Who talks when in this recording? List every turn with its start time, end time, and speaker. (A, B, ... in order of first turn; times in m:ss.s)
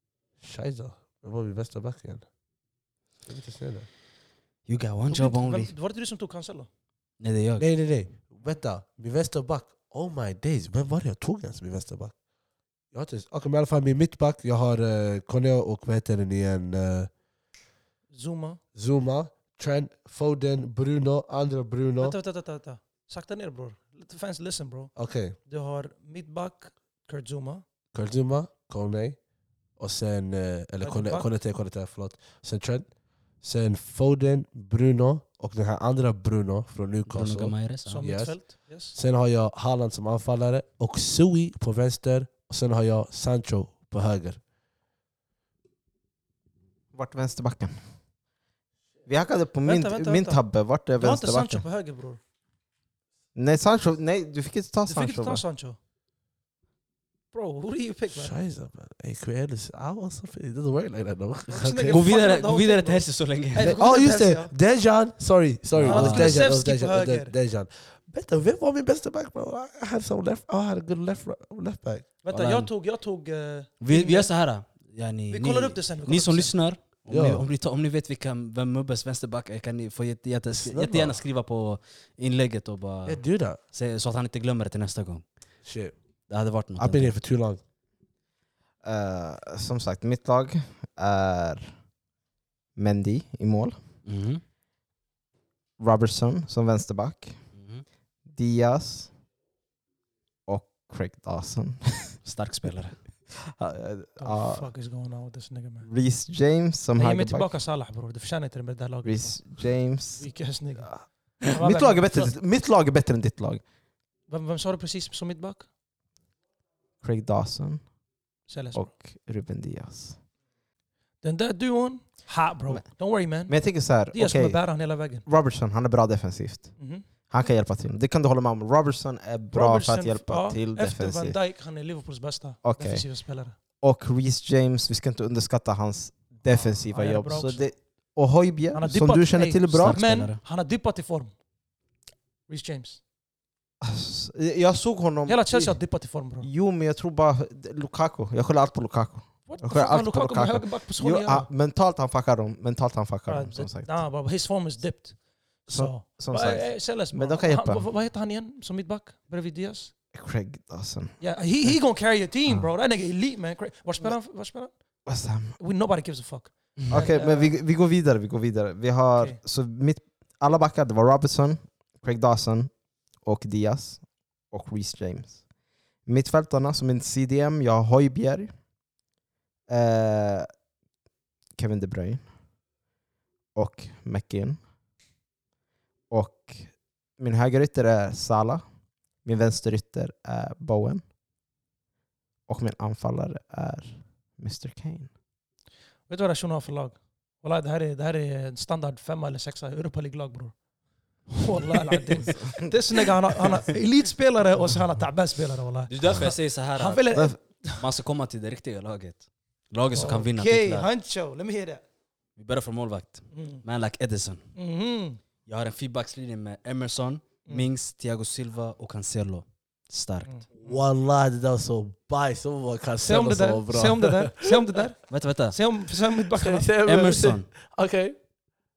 0:00.4-0:02.2 A
0:03.2-0:03.9 A
0:04.6-0:05.7 B
0:05.1-0:06.7 C
0:07.2-0:07.7 B
0:07.6-0:12.2 A
0:12.9-0:17.1 A
0:18.1-0:18.6 C
0:18.7-0:22.2 A
0:22.0-0:27.6 C
0:24.9-0:25.4 A
0:27.9-0:29.2 A
0:29.7-0:44.4 A
0:30.8-0:31.3 C
0:37.0-0:38.0 B
0:37.8-0:39.0 C
0:46.9-0:47.8 D
0:49.0-0:51.6 D
0:49.6-0:50.4 C
0:51.0-0:52.2 C
0:53.3-0:55.4 D
0:54.9-0:55.8 C
0:57.3-0:58.4 C
0:58.1-1:02.0 A
1:01.5-1:04.5 C
1:01.9-1:03.8 B
1:03.8-1:12.1 A
1:05.7-1:06.5 B
1:05.8-1:07.3 C
1:12.2-1:14.3 C
1:12.3-1:12.7 B
1:13.8-1:25.2 B
1:15.3-1:16.5 C
1:17.1-1:17.5 A
1:20.6-1:21.2 A
1:23.0-1:23.6 A
1:25.6-1:25.9 A
1:26.3-1:27.2 B
1:26.8-1:27.6 A
1:28.8-1:31.7 D
1:32.8-1:33.8 D
1:34.0-1:34.4 B
1:35.8-1:37.4 D
1:37.6-1:37.8 B
1:38.3-1:39.1 D
1:40.5-1:42.2 D
1:42.2-1:43.0 B
1:43.4-1:44.6 D
1:44.2-1:45.9 C
1:45.8-1:47.5 D
1:47.0-1:52.4 C
1:49.0-1:53.6 D
1:54.3-1:55.7 C
1:57.0-1:57.9 D
1:58.5-1:58.9 C
1:58.7-2:00.2 D
2:01.2-2:05.2 C
2:02.7-2:11.4 D
2:06.8-2:07.0 C
2:09.5-2:13.5 C
2:12.6-2:13.0 D
2:13.8-2:20.0 D
2:16.4-2:17.6 C
2:18.7-2:21.3 C
2:19.7-2:20.4 B
2:22.5-2:23.0 C
2:23.8-2:25.8 D
2:25.2-2:26.5 C
2:26.4-2:34.0 D
2:29.5-2:31.5 C
2:33.3-2:39.9 C
2:35.7-2:37.8 D
2:40.1-2:41.8 D
2:41.2-2:44.7 C
2:45.0-2:45.5 D
2:45.6-2:47.6 C
2:46.9-2:52.7 D
2:53.2-2:55.4 D
2:56.0-2:58.5 D
2:59.7-3:00.5 D
3:01.6-3:02.2 D
3:03.5-3:04.6 D
3:06.1-3:08.6 D
3:09.2-3:11.0 D
3:12.5-3:15.1 D
3:16.1-3:20.5 C
3:21.3-3:27.8 C
3:25.9-3:27.2 B
3:27.1-3:27.4 D
3:27.8-3:30.9 B
3:29.9-3:31.8 C
3:32.4-3:34.4 B
3:33.3-3:33.6 C
3:34.6-3:35.2 C
3:35.4-3:40.3 B
3:40.2-3:40.8 C
3:40.6-3:44.6 A
3:43.0-3:46.7 C
3:45.1-3:45.6 B
3:46.4-3:48.2 A
3:46.8-3:47.5 B